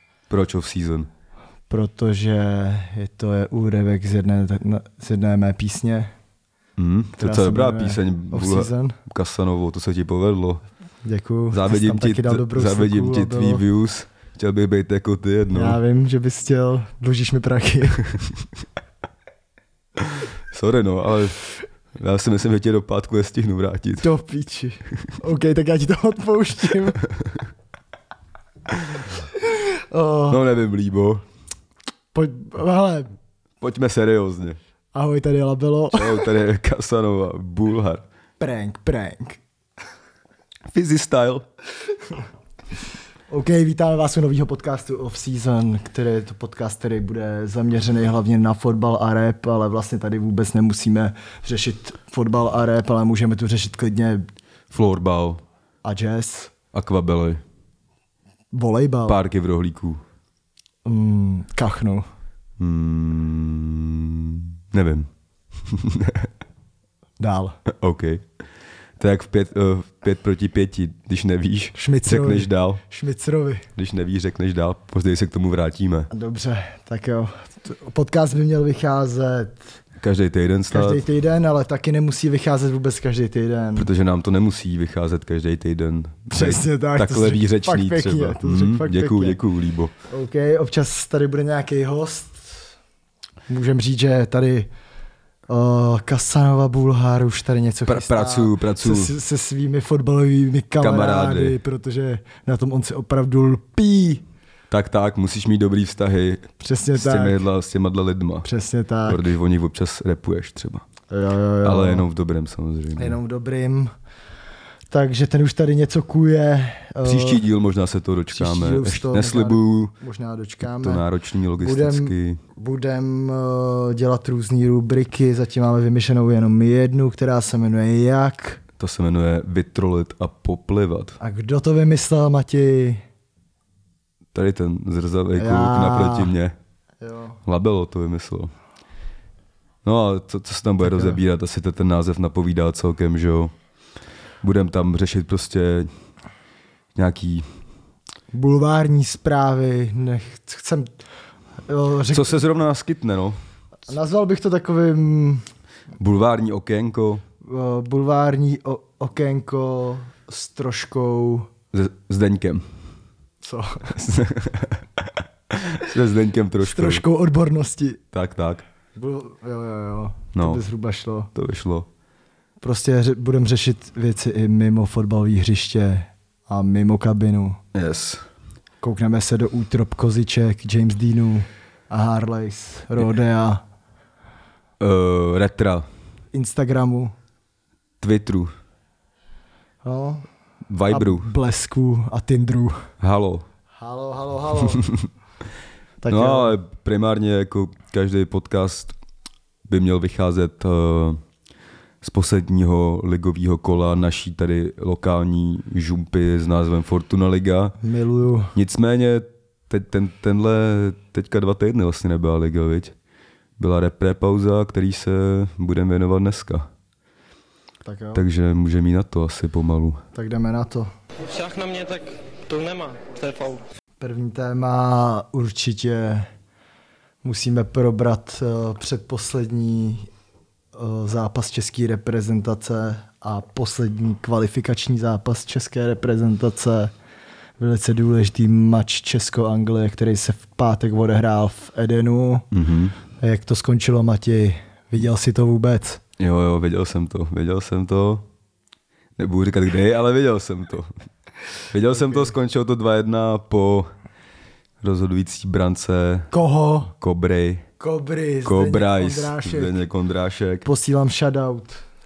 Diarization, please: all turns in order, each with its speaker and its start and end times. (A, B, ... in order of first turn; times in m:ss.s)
0:00.3-0:01.1 A
0:01.7-0:06.1 B
0:06.8-0:10.6 A
0:07.2-0:09.0 B
0:11.0-0:13.6 B
0:11.5-0:15.8 A
0:15.5-0:18.0 B
0:20.3-0:21.4 A
0:22.0-0:24.1 A
0:24.0-0:27.0 B
0:29.4-0:30.4 B
0:30.3-0:31.2 A
0:32.1-0:33.1 B
0:33.6-0:34.6 A
0:34.9-0:36.3 B
0:35.9-0:38.0 A
0:38.4-0:39.4 B
0:40.7-0:41.5 A
0:43.3-0:54.3 B
0:54.7-0:55.4 A
0:55.8-0:56.5 B
0:56.7-0:57.4 A
0:58.5-0:59.2 B
0:59.1-1:00.0 A
1:00.8-1:02.1 B
1:02.6-1:05.1 A
1:05.6-1:06.3 A
1:07.2-1:07.6 B
1:07.7-1:08.3 A
1:09.0-1:12.8 A
1:11.8-1:13.7 B
1:13.8-1:16.1 A
1:16.1-1:19.6 B
1:20.0-1:21.0 A
1:20.7-1:23.9 B
1:23.8-1:29.9 A
1:26.3-1:29.4 B
1:30.1-1:32.6 B
1:33.5-1:34.7 B
1:35.5-1:44.2 B
1:37.9-1:39.1 A
1:40.8-1:41.6 A
1:44.7-1:48.5 A
1:46.6-1:47.5 B
1:48.4-1:49.2 B
1:49.1-1:50.8 A
1:51.1-1:52.1 B
1:51.6-1:53.2 A
1:53.0-1:53.9 B
1:54.9-1:57.5 B
1:57.0-1:59.9 A
1:58.3-2:01.0 B
2:00.6-2:02.4 A
2:01.6-2:08.6 B
2:08.8-2:11.2 A
2:11.2-2:13.0 B
2:14.3-2:16.6 A
2:15.4-2:16.3 B
2:17.0-2:17.4 B
2:17.4-2:18.5 A
2:19.8-2:23.5 A
2:20.8-2:21.2 B
2:24.4-2:25.9 A
2:27.0-2:27.5 A
2:28.3-2:30.9 B
2:31.7-2:32.4 B
2:32.1-2:33.4 A
2:33.9-2:35.4 B
2:36.0-2:37.2 A
2:37.4-2:41.5 B
2:41.7-2:42.6 A
2:43.4-2:44.0 B
2:44.0-2:47.0 A
2:46.6-2:48.0 B
2:48.1-2:48.6 A
2:49.0-2:51.3 B
2:50.3-2:50.6 A
2:51.4-2:51.9 A
2:52.6-2:57.6 B
2:57.7-2:58.2 A
2:58.8-3:03.6 B
3:04.8-3:05.9 A
3:06.3-3:07.1 B
3:08.0-3:08.5 A
3:09.8-3:10.3 B
3:10.7-3:11.3 A
3:10.9-3:12.9 B
3:13.0-3:13.5 A
3:13.8-3:14.9 B
3:16.0-3:16.6 B
3:16.1-3:19.0 A
3:19.7-3:21.2 A
3:22.0-3:27.8 A
3:27.8-3:28.6 B
3:28.6-3:33.0 A
3:33.6-3:36.7 A
3:37.8-3:38.3 B
3:38.1-3:40.0 A
3:40.1-3:40.9 B
3:41.2-3:43.6 C
3:44.0-3:46.3 B
3:47.2-3:50.1 B
3:50.7-3:56.9 B
3:57.6-4:02.5 B
4:02.5-4:03.0 A
4:03.2-4:06.0 B
4:06.2-4:08.3 A
4:09.2-4:10.9 A
4:11.7-4:13.9 A
4:11.9-4:12.3 B
4:14.8-4:16.3 A
4:16.3-4:16.9 B
4:17.0-4:17.7 A
4:17.8-4:19.8 B
4:18.4-4:20.7 A
4:20.6-4:21.8 B